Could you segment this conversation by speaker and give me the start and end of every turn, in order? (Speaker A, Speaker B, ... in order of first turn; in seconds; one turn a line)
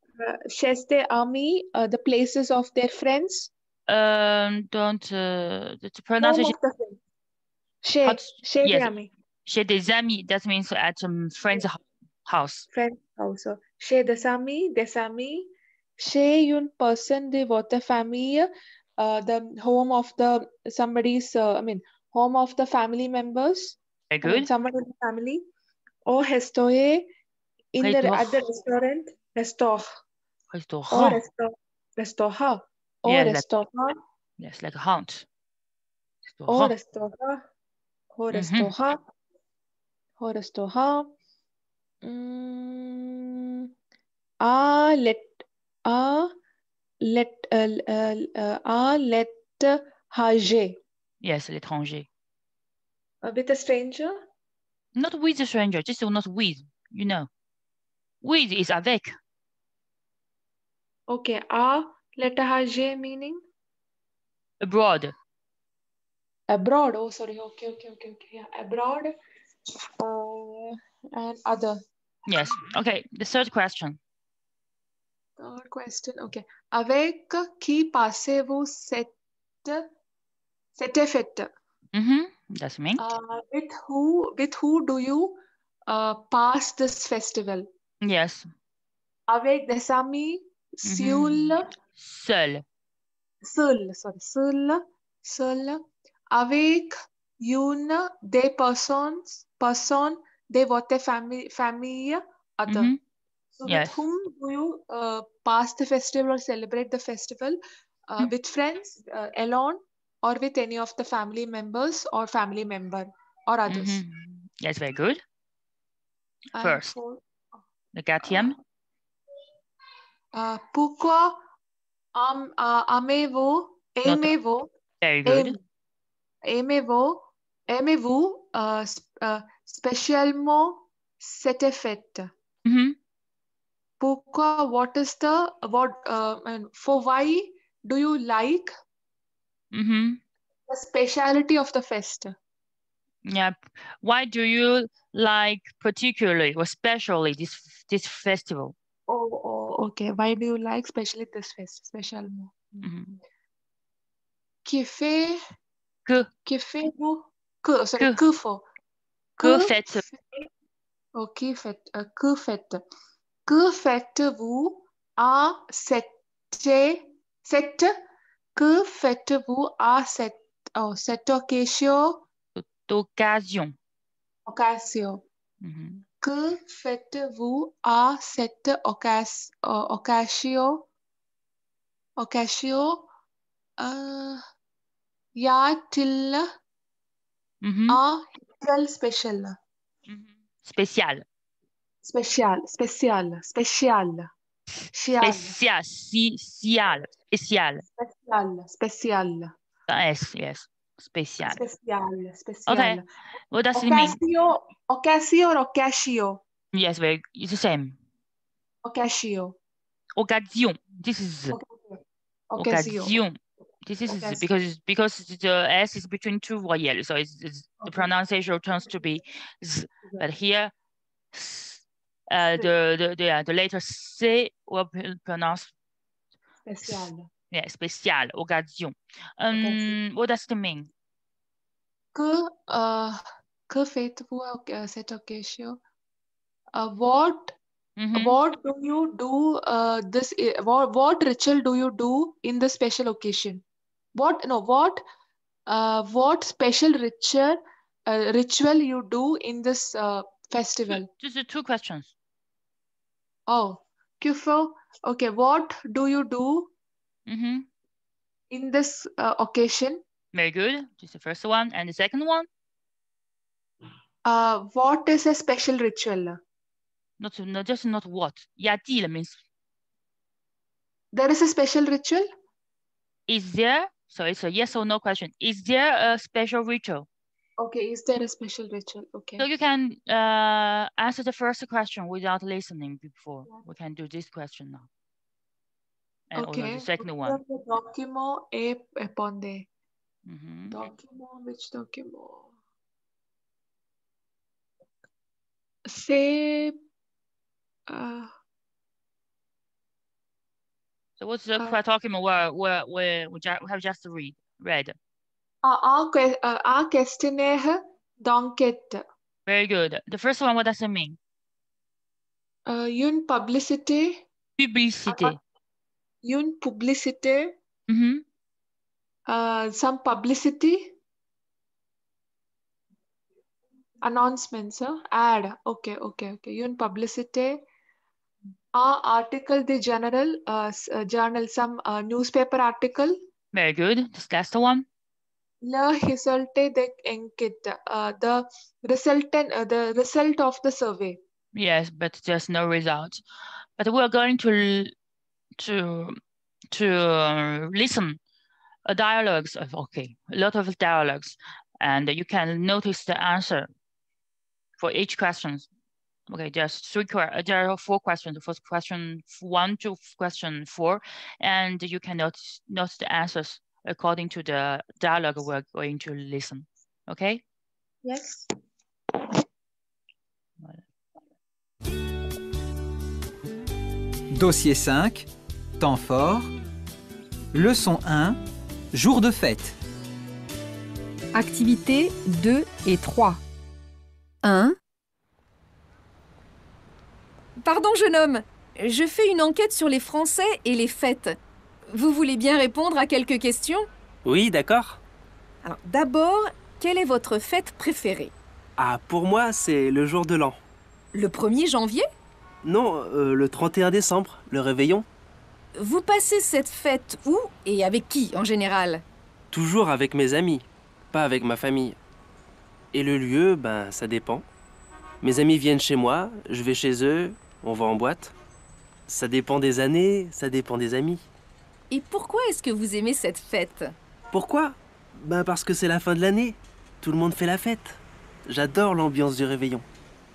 Speaker A: 0.2-3.5
Speaker B: 3.9-6.5
Speaker A: 6.2-7.0
Speaker A: 7.8-9.1
Speaker B: 8.0-8.9
Speaker B: 9.5-12.7
Speaker A: 12.7-25.4
Speaker B: 24.1-24.5
Speaker A: 26.1-27.1
Speaker A: 27.7-30.0
Speaker B: 27.8-28.4
Speaker B: 30.5-31.2
Speaker A: 30.9-34.0
Speaker B: 33.1-33.5
Speaker B: 34.4-35.3
Speaker B: 36.3-36.7
Speaker A: 36.5-37.4
Speaker A: 38.1-39.0
Speaker B: 38.3-38.7
Speaker A: 40.2-41.1
Speaker A: 42.0-43.6
Speaker A: 44.4-46.3
Speaker A: 47.0-50.8
Speaker B: 51.2-52.1
Speaker A: 53.2-54.1
Speaker B: 55.0-57.3
Speaker B: 58.2-59.1
Speaker A: 61.1-63.4
Speaker B: 64.6-65.1
Speaker A: 66.5-69.1
Speaker A: 70.0-71.8
Speaker B: 72.3-74.0
Speaker A: 75.4-79.9
Speaker A: 80.8-81.5
Speaker B: 81.9-83.0
Speaker A: 83.0-87.7
Speaker B: 88.0-88.5
Speaker A: 89.3-91.6
Speaker B: 90.9-92.6
Speaker A: 93.4-95.8
Speaker A: 96.3-102.9
Speaker B: 102.7-103.0
Speaker A: 103.6-114.0
Speaker B: 103.7-104.0
Speaker B: 113.7-115.2
Speaker A: 116.6-117.2
Speaker B: 116.6-117.0
Speaker B: 117.9-118.5
Speaker A: 118.2-118.5
Speaker A: 120.3-121.4
Speaker A: 122.2-124.7
Speaker B: 124.0-124.3
Speaker B: 125.0-125.5
Speaker A: 125.3-125.6
Speaker A: 126.5-132.3
Speaker B: 132.7-133.0
Speaker A: 134.0-138.7
Speaker B: 139.7-140.2
Speaker A: 140.7-142.4
Speaker B: 143.2-148.8
Speaker A: 149.1-152.9
Speaker B: 152.8-153.2
Speaker A: 154.7-155.4
Speaker A: 156.5-158.6
Speaker A: 159.4-160.5
Speaker B: 159.4-160.0
Speaker A: 161.2-162.8
Speaker A: 163.5-167.9
Speaker A: 168.6-172.2
Speaker B: 172.6-173.8
Speaker A: 174.5-175.2
Speaker B: 175.6-176.0
Speaker A: 176.2-180.9
Speaker A: 182.2-183.1
Speaker A: 183.8-184.4
Speaker A: 185.4-186.5
Speaker B: 187.6-188.0
Speaker A: 187.9-189.6
Speaker B: 190.1-191.2
Speaker A: 192.0-194.3
Speaker A: 194.9-195.6
Speaker B: 195.2-197.8
Speaker A: 198.0-199.5
Speaker B: 199.9-201.6
Speaker A: 201.5-203.1
Speaker B: 202.7-204.2
Speaker A: 203.8-206.4
Speaker B: 206.7-208.0
Speaker A: 208.8-209.6
Speaker B: 210.2-211.6
Speaker A: 211.5-213.2
Speaker B: 212.6-220.7
Speaker A: 214.1-214.4
Speaker A: 217.8-218.1
Speaker B: 221.3-225.7
Speaker A: 226.7-227.3
Speaker B: 226.8-230.9
Speaker A: 229.5-230.0
Speaker A: 232.1-235.8
Speaker A: 236.7-237.6
Speaker B: 238.0-238.4
Speaker A: 238.2-243.6
Speaker A: 244.2-245.0
Speaker A: 245.7-251.1
Speaker B: 250.9-252.1
Speaker A: 253.5-256.7
Speaker B: 257.3-257.7
Speaker A: 258.5-260.0
Speaker B: 260.3-262.5
Speaker A: 264.2-266.4
Speaker B: 267.2-269.4
Speaker A: 271.1-272.3
Speaker B: 273.3-277.1
Speaker A: 277.6-279.4
Speaker B: 279.4-284.9
Speaker B: 286.3-287.4
Speaker A: 286.4-289.7
Speaker B: 290.3-290.8
Speaker A: 290.7-292.5
Speaker A: 295.9-296.8
Speaker A: 297.9-298.3
Speaker B: 301.2-305.0
Speaker A: 305.6-309.0
Speaker B: 309.5-311.2
Speaker A: 312.7-314.2
Speaker B: 314.6-315.4
Speaker A: 315.1-315.4
Speaker A: 316.2-317.5
Speaker B: 317.9-318.2
Speaker A: 319.3-320.9
Speaker A: 324.0-327.6
Speaker A: 328.8-333.2
Speaker B: 333.5-334.9
Speaker A: 335.6-341.2
Speaker B: 341.5-343.2
Speaker B: 343.8-344.9
Speaker B: 345.6-346.2
Speaker B: 346.7-348.2
Speaker B: 348.9-353.7
Speaker B: 354.8-355.7
Speaker B: 356.3-367.4
Speaker A: 368.0-368.5
Speaker C: 374.3-376.5
Speaker C: 377.5-378.4
Speaker C: 378.9-379.8
Speaker D: 381.3-383.4
Speaker D: 384.4-384.8
Speaker D: 387.6-391.4
Speaker D: 391.9-393.9
Speaker E: 394.3-395.0
Speaker D: 395.6-398.3
Speaker E: 398.8-400.6
Speaker D: 401.1-402.1
Speaker E: 402.6-405.1
Speaker D: 405.8-409.0
Speaker E: 409.5-412.0
Speaker E: 412.9-414.5
Speaker E: 415.2-418.3
Speaker E: 419.1-421.2
Speaker D: 421.9-423.9
Speaker E: 424.3-429.9